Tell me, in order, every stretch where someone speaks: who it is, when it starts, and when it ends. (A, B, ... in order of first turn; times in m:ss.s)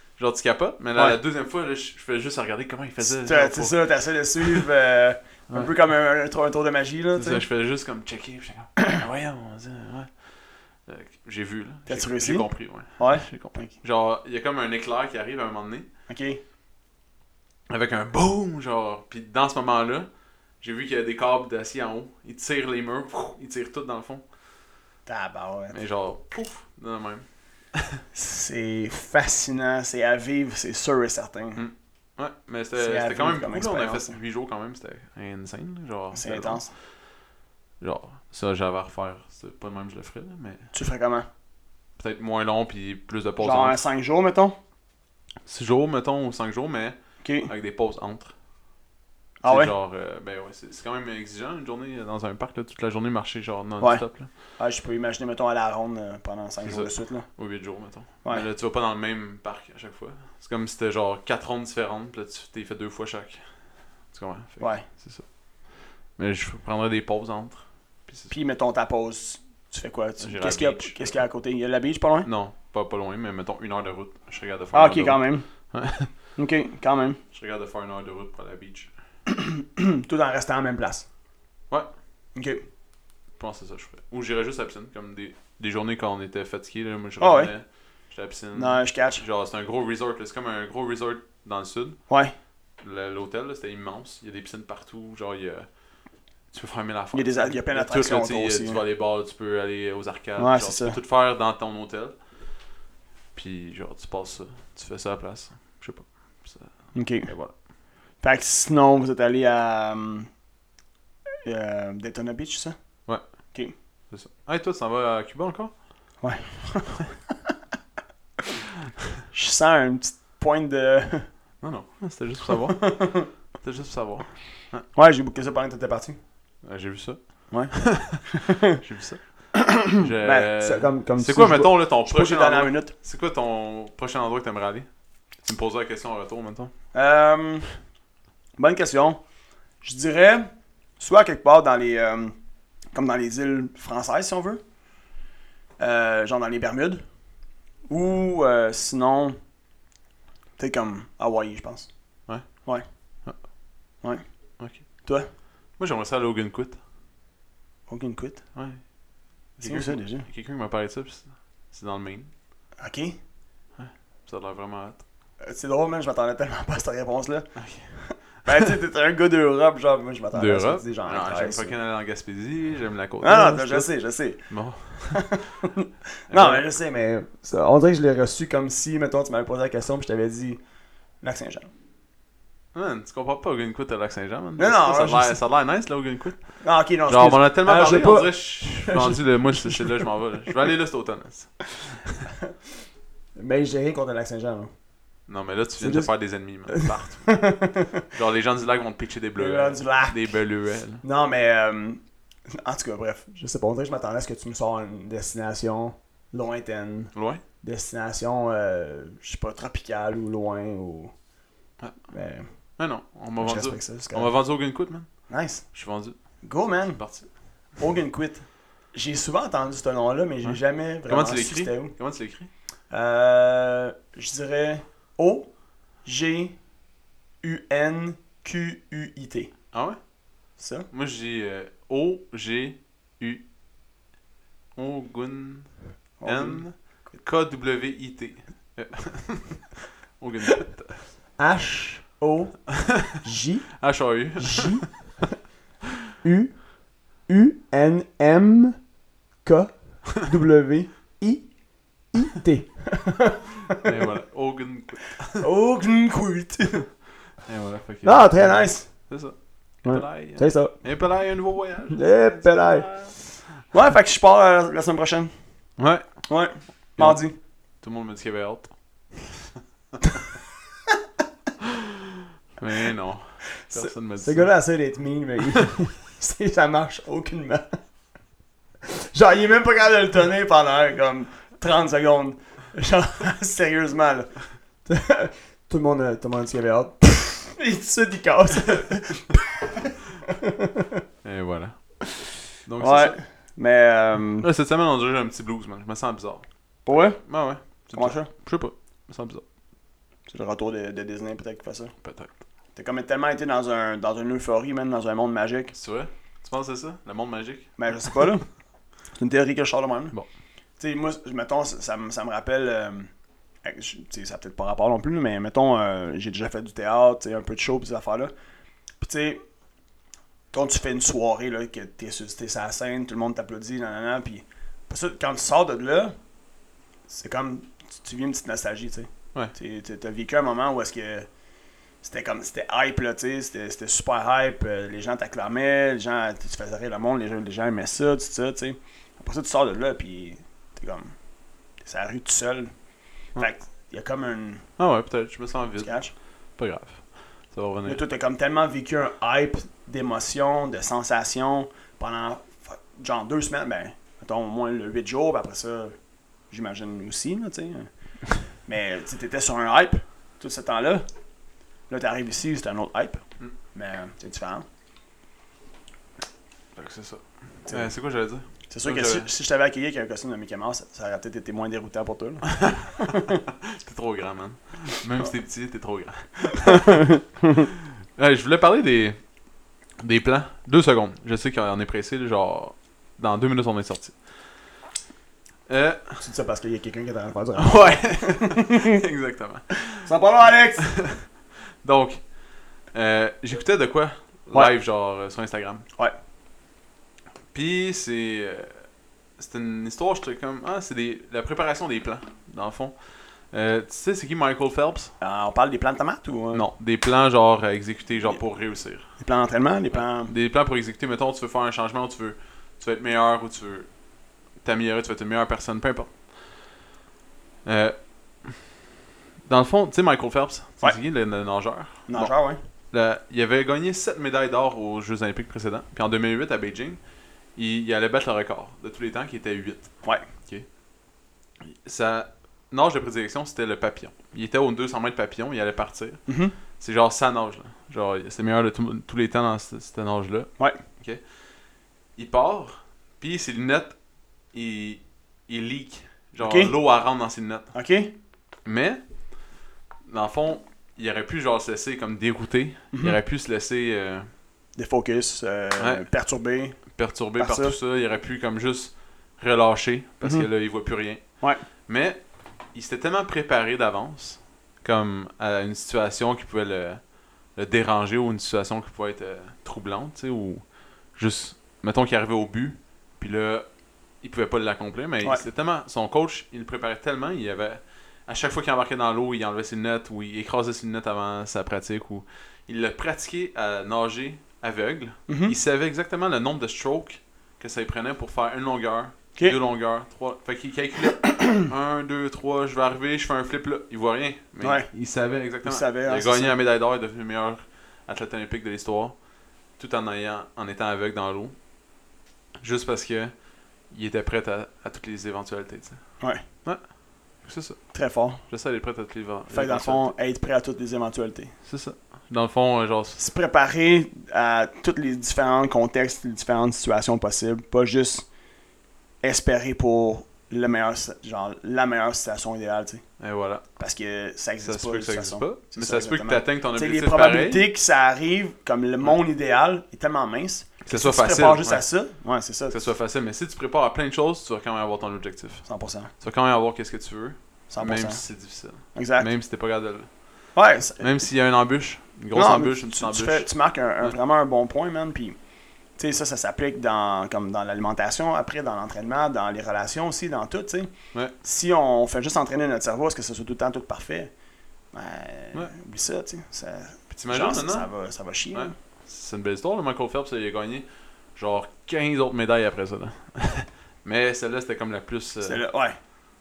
0:00.2-0:03.8 A
0:03.0-0:07.4 B
0:04.4-0:04.7 A
0:07.2-0:10.1 A
0:10.9-0:15.9 A
0:11.9-0:13.8 B
0:16.1-0:16.4 B
0:17.7-0:20.1 A
0:20.6-0:24.2 A
0:25.1-0:25.8 B
0:25.7-0:28.0 A
0:28.1-0:31.6 B
0:31.6-0:36.7 A
0:32.8-0:34.2 B
0:36.1-0:36.7 B
0:37.8-0:40.7 A
0:40.7-0:41.3 B
0:42.0-0:43.8 A
0:43.4-0:44.6 B
0:45.5-0:48.3 A
0:47.2-0:47.5 B
0:49.4-0:49.7 B
0:49.4-0:54.3 A
0:54.6-0:57.3 B
0:56.6-1:03.4 A
1:04.1-1:05.3 A
1:04.6-1:04.9 B
1:06.2-1:08.3 A
1:08.3-1:12.3 B
1:10.2-1:11.2 A
1:12.2-1:16.1 A
1:14.7-1:15.5 B
1:16.4-1:17.2 B
1:17.3-1:18.9 A
1:19.3-1:21.1 B
1:22.4-1:22.6 B
1:23.4-1:32.0 A
1:27.2-1:27.5 B
1:28.6-1:29.2 B
1:32.8-1:35.7 A
1:36.5-1:42.2 A
1:37.1-1:38.8 B
1:40.4-1:41.0 B
1:43.4-1:47.6 A
1:46.9-1:47.3 B
1:48.2-1:50.3 B
1:51.4-1:52.8 B
1:54.1-1:55.8 A
1:56.2-1:57.1 B
1:59.3-2:01.4 B
2:01.6-2:04.8 A
2:02.7-2:03.3 B
2:04.9-2:06.2 B
2:06.6-2:16.7 A
2:07.5-2:08.8 B
2:09.5-2:12.9 B
2:16.9-2:17.7 B
2:18.6-2:19.2 B
2:19.8-2:22.4 B
2:22.9-2:24.6 B
2:25.8-2:27.0 B
2:27.9-2:29.4 B
2:30.6-2:31.9 B
2:32.3-2:32.6 A
2:32.6-2:32.8 B
2:34.6-2:34.8 A
2:35.0-2:35.3 B
2:35.8-2:36.8 A
2:37.9-2:38.4 B
2:38.6-2:38.8 A
2:39.6-2:42.3 A
2:39.6-2:40.3 B
2:42.8-2:43.2 B
2:43.8-2:45.0 A
2:45.4-2:51.8 B
2:47.6-2:48.0 A
2:50.3-2:53.9 A
2:53.2-2:54.5 B
2:54.5-2:55.4 A
2:55.1-3:00.6 B
2:56.3-2:56.7 A
3:01.2-3:01.7 B
3:02.7-3:06.4 A
3:04.6-3:05.4 B
3:06.6-3:10.1 B
3:07.1-3:12.3 A
3:13.4-3:14.7 B
3:15.3-3:17.4 A
3:15.8-3:16.1 B
3:16.7-3:18.1 B
3:18.1-3:21.0 A
3:19.4-3:20.4 B
3:21.0-3:31.1 B
3:27.1-3:27.4 A
3:32.1-3:32.5 B
3:32.8-3:36.2 A
3:33.4-3:34.3 B
3:35.3-3:35.7 B
3:36.4-3:37.0 B
3:37.0-3:37.3 A
3:37.8-3:42.0 B
3:40.4-3:42.5 A
3:42.9-3:45.5 B
3:46.0-3:46.6 B
3:47.4-3:49.5 B
3:49.7-3:50.0 A
3:50.6-3:50.9 B
3:50.9-3:53.4 A
3:54.8-4:01.0 A
3:56.2-3:57.2 B
4:01.4-4:03.8 B
4:03.8-4:04.9 A
4:04.4-4:04.9 B
4:06.2-4:08.8 B
4:09.4-4:13.9 B
4:13.8-4:15.4 A
4:15.4-4:16.9 B
4:17.4-4:23.2 A
4:18.0-4:19.0 B
4:19.8-4:20.8 B
4:21.9-4:23.0 B
4:23.7-4:25.3 B
4:25.8-4:26.1 A
4:26.3-4:27.4 B
4:27.0-4:27.3 A
4:27.8-4:29.5 A
4:32.6-4:34.5 A
4:33.7-4:37.8 B
4:38.9-4:50.9 B
4:51.2-4:52.1 A
4:52.6-4:53.2 A
4:52.8-4:54.5 B
4:54.4-4:59.4 A
4:56.9-4:57.2 B
4:57.8-4:58.3 B
5:00.3-5:01.9 B
5:02.0-5:02.3 A
5:02.8-5:05.7 B
5:05.7-5:07.7 A
5:07.8-5:08.5 B
5:09.2-5:10.2 B
5:10.8-5:13.1 B
5:13.6-5:18.3 B
5:19.0-5:19.4 B
5:20.5-5:26.2 B
5:27.1-5:31.3 B
5:32.0-5:41.2 B
5:41.8-5:42.7 B
5:43.4-5:44.7 B
5:44.8-5:46.0 A
5:45.8-5:46.1 B
5:46.6-5:48.0 A
5:47.9-5:56.0 B
5:56.5-6:01.0 B
6:01.9-6:04.6 B
6:06.8-6:09.3 A
6:08.7-6:13.4 B
6:12.5-6:17.1 A
6:16.7-6:17.6 B
6:18.2-6:19.2 A
6:20.0-6:24.2 A
6:25.7-6:26.2 A
6:26.2-6:29.0 B
6:27.6-6:30.1 A
6:30.0-6:30.9 B
6:30.8-6:31.3 A
6:31.8-6:32.2 A
6:32.9-6:35.9 A
6:37.5-6:38.8 A
6:39.4-6:43.0 A
6:43.5-6:45.1 A
6:45.2-6:46.6 B
6:46.5-6:49.1 A
6:49.2-6:50.3 B
6:49.9-6:53.9 A
6:54.6-6:56.2 A
6:57.6-6:58.7 A
6:59.4-7:02.3 A
7:02.1-7:02.6 B
7:02.9-7:07.0 A
7:07.6-7:10.7 A
7:11.6-7:21.2 A
7:16.3-7:16.6 B
7:22.2-7:24.0 A
7:24.5-7:27.7 A
7:26.4-7:26.8 B
7:27.7-7:28.1 B
7:28.6-7:29.0 A
7:30.1-7:34.3 A
7:32.9-7:33.2 B
7:34.8-7:36.8 B
7:35.8-7:36.1 A
7:36.9-7:41.4 A
7:37.4-7:37.8 B
7:40.2-7:40.5 B
7:41.9-7:53.7 A
7:54.2-8:19.2 A
8:05.3-8:05.5 B
8:14.6-8:14.9 B
8:15.6-8:16.5 B
8:19.8-8:21.6 A
8:22.6-8:23.4 A
8:23.9-8:26.8 A
8:27.4-8:27.9 A
8:27.9-8:28.4 B
8:28.5-8:30.1 A
8:29.5-8:31.5 B
8:31.6-8:33.2 A
8:33.2-8:38.3 B
8:39.2-8:43.0 B
8:43.2-8:43.6 A
8:43.8-8:52.8 B
8:44.6-8:47.7 A
8:50.9-8:51.8 A
8:52.7-8:55.7 A
8:55.7-8:56.1 B
8:56.2-9:00.1 A
8:57.7-8:58.2 B
8:58.9-8:59.3 B
9:00.6-9:01.2 B
9:01.0-9:03.5 A
9:02.3-9:05.4 B
9:06.0-9:14.3 B
9:14.9-9:18.7 B
9:17.1-9:17.9 A
9:18.5-9:25.6 A
9:25.4-9:26.0 B